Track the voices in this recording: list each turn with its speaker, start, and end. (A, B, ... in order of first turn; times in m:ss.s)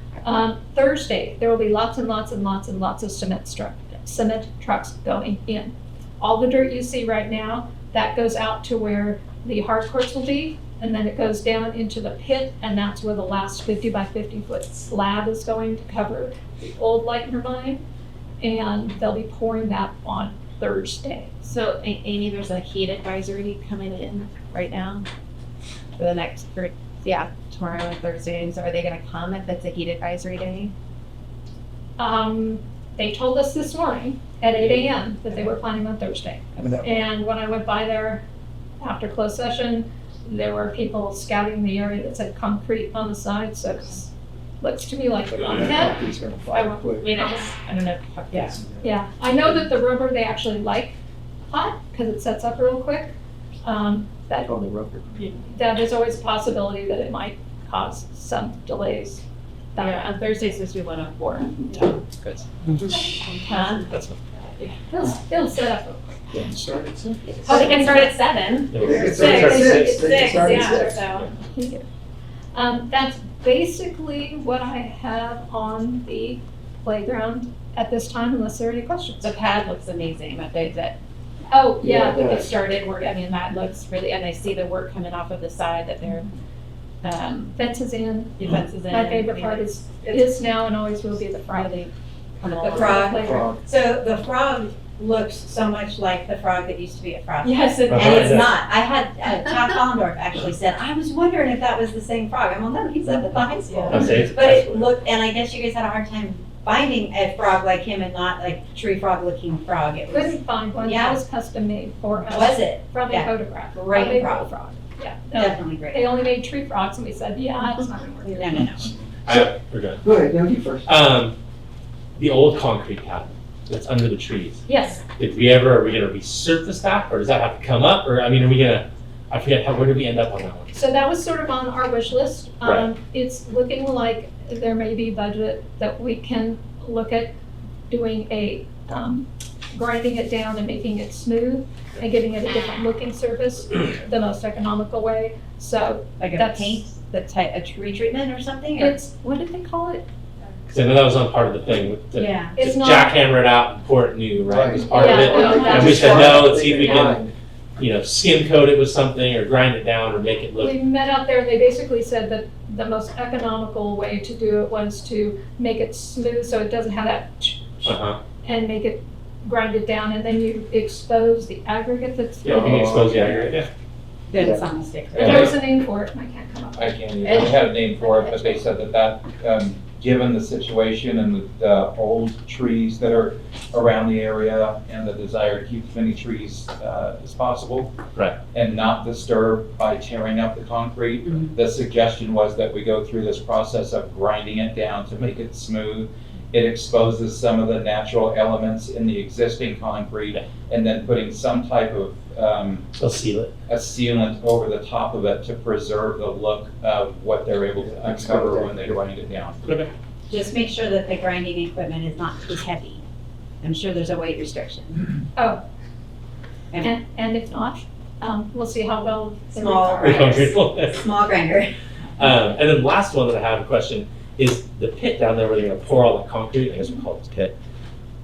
0:00.2-0:17.8 A
0:18.4-0:21.5 A
0:21.4-0:25.1 B
0:26.0-0:30.7 B
0:32.0-0:38.2 A
0:36.6-0:37.0 C
0:38.8-0:46.0 A
0:45.3-0:47.1 C
0:46.5-0:47.6 A
0:47.0-0:48.6 B
0:48.6-0:48.8 C
0:48.8-0:51.0 A
0:51.5-0:54.6 A
0:54.4-0:55.0 C
0:55.5-0:59.2 A
0:59.8-1:00.1 A
0:59.8-1:02.0 B
1:02.2-1:02.4 D
1:03.0-1:03.9 B
1:03.9-1:04.2 D
1:04.9-1:06.0 A
1:06.4-1:07.0 C
1:07.4-1:11.3 B
1:07.4-1:08.1 A
1:08.7-1:10.1 D
1:08.8-1:11.0 C
1:08.9-1:11.8 A
1:12.5-1:19.3 A
1:19.2-1:21.0 B
1:21.5-1:22.4 A
1:21.8-1:22.5 C
1:22.1-1:26.3 B
1:27.0-1:27.6 B
1:27.6-1:31.8 A
1:28.4-1:30.4 B
1:31.5-1:33.3 B
1:32.4-1:33.5 A
1:32.5-1:51.2 E
1:33.1-1:33.6 C
1:37.4-1:38.4 B
1:37.9-1:38.5 D
1:43.7-1:44.1 B
1:43.9-1:44.8 D
1:50.1-1:58.6 A
1:52.2-1:54.5 E
1:55.3-1:56.2 E
1:58.2-1:58.9 E
1:59.2-1:59.5 C
1:59.2-2:00.0 D
2:00.0-2:00.9 C
2:00.8-2:01.4 D
2:02.2-2:04.6 D
2:04.7-2:05.0 A
2:05.2-2:10.8 D
2:10.7-2:17.3 A
2:17.9-2:26.8 A
2:26.2-2:26.6 F
2:27.5-2:28.9 E
2:28.8-2:30.0 A
2:30.7-2:40.7 D
2:32.6-2:33.2 A
2:34.5-2:37.3 C
2:34.9-2:37.2 A
2:35.3-2:35.9 E
2:40.6-2:52.8 A
2:47.8-2:48.2 D
2:52.4-2:53.7 D
2:52.5-2:53.4 C
2:54.3-2:55.4 E
2:54.4-2:54.6 C
2:55.1-2:56.9 A
2:55.2-2:55.6 F
2:56.8-3:07.9 F
3:08.5-3:22.8 F
3:23.0-3:23.5 D
3:23.7-3:29.6 F
3:27.8-3:29.0 C
3:29.7-3:29.9 D
3:30.3-3:33.0 E
3:33.6-3:35.1 E
3:35.4-3:35.6 A
3:36.8-3:40.4 A
3:39.5-3:41.8 E
3:40.0-3:41.0 D
3:42.2-3:47.5 D